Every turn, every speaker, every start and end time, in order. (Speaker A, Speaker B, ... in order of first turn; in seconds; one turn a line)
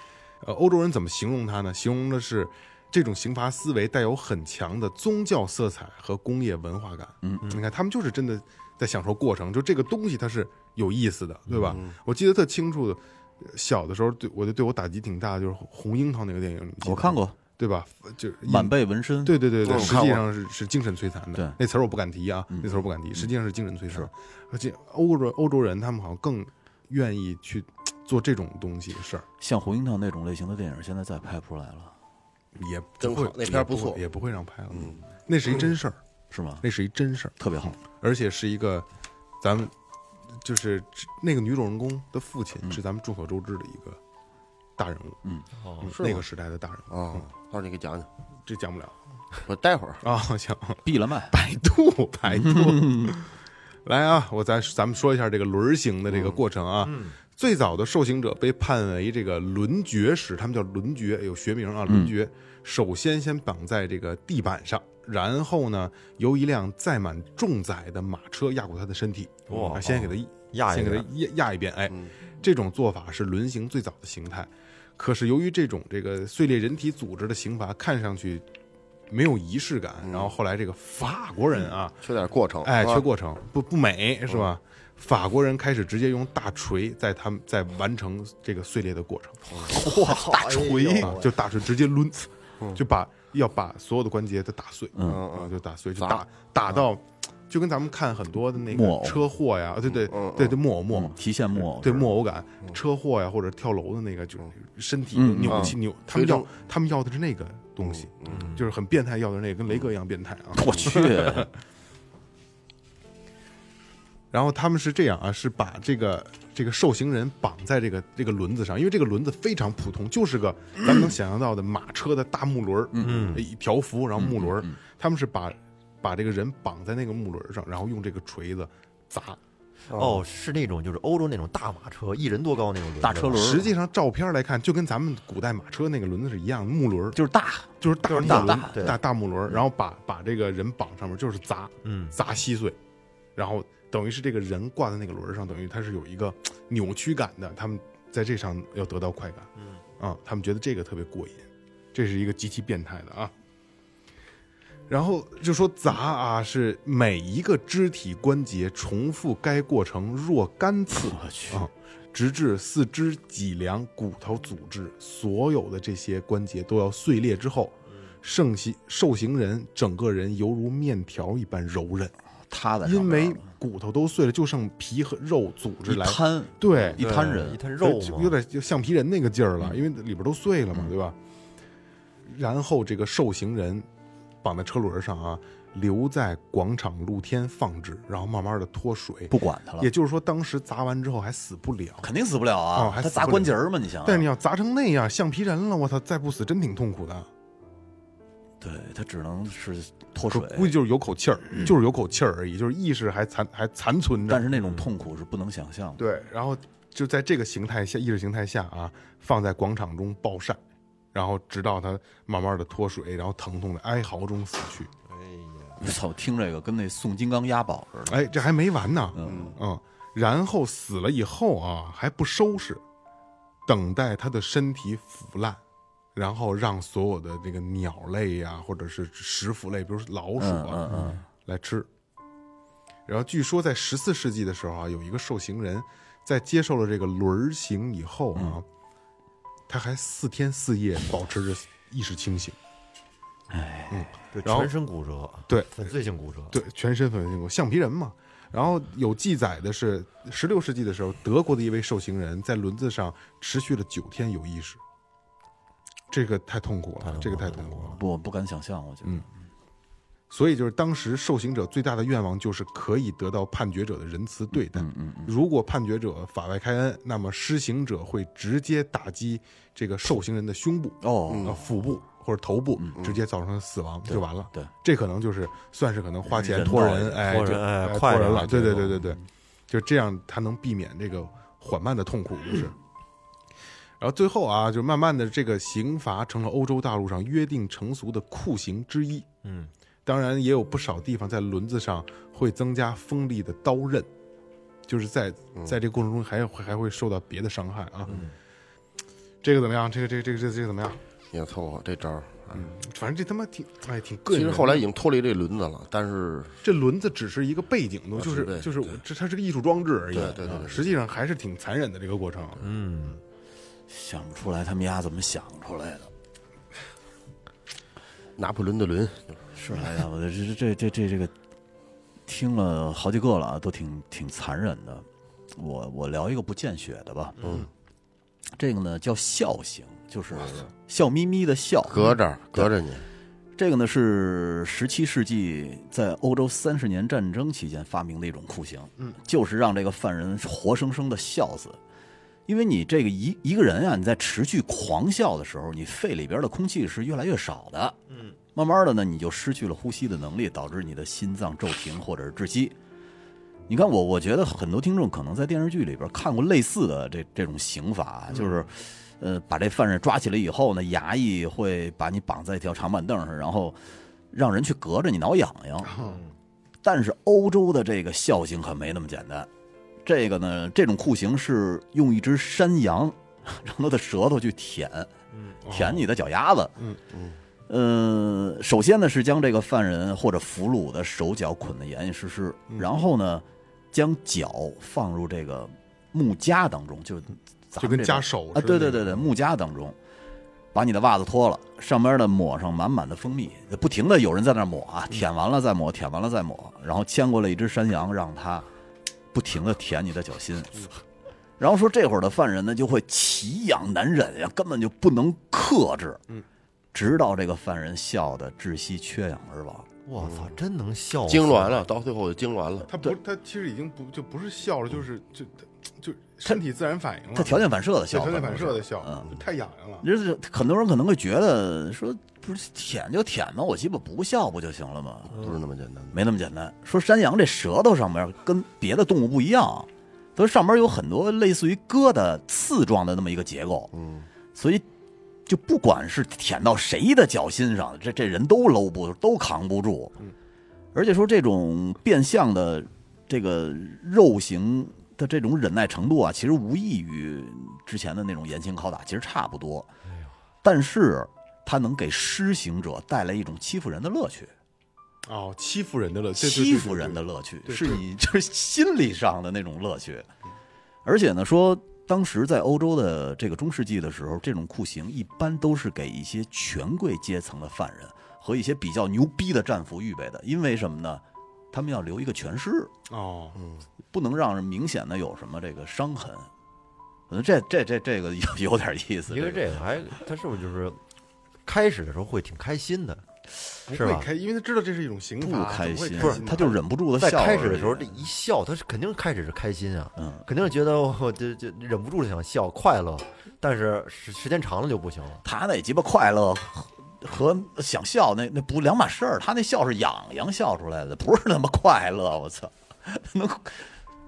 Speaker A: 0.4-29.2
Speaker B: 7.2-7.5
Speaker B: 11.5-11.8
Speaker C: 11.7-12.0
Speaker B: 16.8-17.4
Speaker B: 18.4-20.0
Speaker C: 19.6-20.2
Speaker B: 22.5-23.3
Speaker B: 29.4-31.9
Speaker A: 32.5-36.0
Speaker C: 33.0-34.0
Speaker C: 34.7-35.0
Speaker B: 36.3-36.6
Speaker A: 36.6-38.9
Speaker B: 37.4-37.8
Speaker A: 39.4-39.7
Speaker A: 40.4-44.0
Speaker A: 44.8-45.2
Speaker D: 45.6-45.9
Speaker A: 45.8-47.3
Speaker C: 45.8-46.2
Speaker C: 46.9-48.1
Speaker A: 48.5-49.0
Speaker C: 49.5-50.0
Speaker A: 50.0-53.3
Speaker B: 50.8-51.3
Speaker B: 52.3-53.1
Speaker A: 53.9-78.4
Speaker C: 56.1-56.4
Speaker D: 56.8-57.2
Speaker B: 61.9-62.1
Speaker D: 69.5-71.1
Speaker C: 69.5-69.8
Speaker A: 79.1-82.0
Speaker C: 80.0-80.3
Speaker C: 82.0-83.1
Speaker A: 82.6-89.5
Speaker C: 89.5-89.8
Speaker B: 89.7-91.2
Speaker D: 89.9-91.3
Speaker A: 91.0-111.5
Speaker B: 95.0-95.2
Speaker C: 95.0-96.2
Speaker B: 98.7-99.2
Speaker C: 99.9-100.6
Speaker B: 100.9-102.1
Speaker B: 105.1-105.8
Speaker C: 105.5-106.5
Speaker C: 107.8-108.5
Speaker D: 108.3-108.7
Speaker B: 110.5-111.5
Speaker A: 114.3-129.4
Speaker B: 122.9-123.3
Speaker D: 123.0-123.5
Speaker B: 124.2-124.8
Speaker D: 129.9-133.7
Speaker B: 133.0-133.6
Speaker A: 133.3-137.2
Speaker B: 137.2-139.0
Speaker A: 137.8-142.8
Speaker D: 138.1-139.0
Speaker D: 141.8-142.2
Speaker A: 143.4-153.3
Speaker A: 154.9-172.1
Speaker B: 160.9-161.7
Speaker B: 172.5-173.5
Speaker A: 172.8-177.0
Speaker B: 175.9-177.6
Speaker D: 177.0-178.4
Speaker A: 177.8-181.2
Speaker A: 182.3-183.9
Speaker A: 184.4-192.1
Speaker B: 189.3-189.9
Speaker B: 192.0-194.3
Speaker A: 192.8-197.3
Speaker B: 198.6-200.7
Speaker A: 200.3-204.4
Speaker B: 204.3-206.0
Speaker A: 206.0-210.6
Speaker A: 211.1-214.9
Speaker B: 215.8-218.2
Speaker A: 218.1-222.8
Speaker B: 219.2-219.5
Speaker C: 219.2-219.6
Speaker A: 223.7-225.6
Speaker A: 226.2-231.9
Speaker B: 230.4-231.2
Speaker A: 233.1-238.7
Speaker B: 238.3-238.6
Speaker A: 239.7-242.6
Speaker B: 243.5-244.1
Speaker A: 243.9-244.7
Speaker D: 244.3-246.6
Speaker A: 245.5-246.0
Speaker A: 246.5-254.8
Speaker A: 256.1-258.0
Speaker D: 257.0-258.0
Speaker B: 258.0-259.3
Speaker A: 260.3-282.8
Speaker B: 264.5-265.3
Speaker B: 271.0-271.6
Speaker C: 271.3-271.6
Speaker B: 274.1-274.7
Speaker B: 276.3-277.2
Speaker D: 276.6-279.1
Speaker A: 284.0-289.3
Speaker D: 289.4-289.7
Speaker A: 290.1-294.1
Speaker A: 294.9-298.2
Speaker D: 298.1-298.3
Speaker A: 299.4-301.0
Speaker C: 301.3-302.7
Speaker A: 302.5-304.9
Speaker C: 304.3-306.6
Speaker A: 306.6-312.7
Speaker C: 308.2-309.0
Speaker C: 310.1-310.9
Speaker D: 312.6-313.2
Speaker B: 313.9-316.1
Speaker C: 318.4-319.5
Speaker B: 319.5-321.3
Speaker B: 322.3-327.4
Speaker D: 327.4-327.6
Speaker C: 327.4-327.7
Speaker B: 328.6-332.7
Speaker C: 331.9-333.1
Speaker B: 333.6-341.8
Speaker B: 342.5-348.0
Speaker D: 348.1-348.4
Speaker B: 348.5-352.8
Speaker B: 353.7-365.9
Speaker A: 358.3-358.6
Speaker A: 365.9-366.2
Speaker D: 366.0-366.3
Speaker B: 366.8-369.5
Speaker B: 370.1-375.1
Speaker A: 375.6-376.1
Speaker B: 375.7-376.7
Speaker C: 377.1-377.4
Speaker B: 377.7-390.0
Speaker A: 387.8-389.3
Speaker B: 390.7-398.7
Speaker B: 399.3-400.9
Speaker B: 401.6-406.2
Speaker B: 406.9-409.9
Speaker D: 410.1-411.8
Speaker C: 410.2-410.5
Speaker C: 411.3-412.9
Speaker A: 412.9-420.1
Speaker B: 417.4-419.3
Speaker B: 420.0-425.4
Speaker C: 425.3-426.2
Speaker B: 426.1-433.9
Speaker C: 433.9-434.3
Speaker B: 434.5-434.9
Speaker B: 435.5-440.1
Speaker B: 440.9-449.9
Speaker B: 450.6-454.5
Speaker A: 455.2-458.0
Speaker B: 456.4-460.3
Speaker B: 461.1-472.9
Speaker A: 473.1-473.6
Speaker C: 473.6-473.9
Speaker B: 474.1-476.5
Speaker B: 477.3-479.7
Speaker D: 479.3-481.0
Speaker D: 481.7-483.2
Speaker A: 483.9-486.8
Speaker D: 483.9-484.3
Speaker B: 485.4-488.2
Speaker D: 486.2-486.6
Speaker D: 487.2-495.4
Speaker B: 490.2-490.5
Speaker B: 495.4-504.0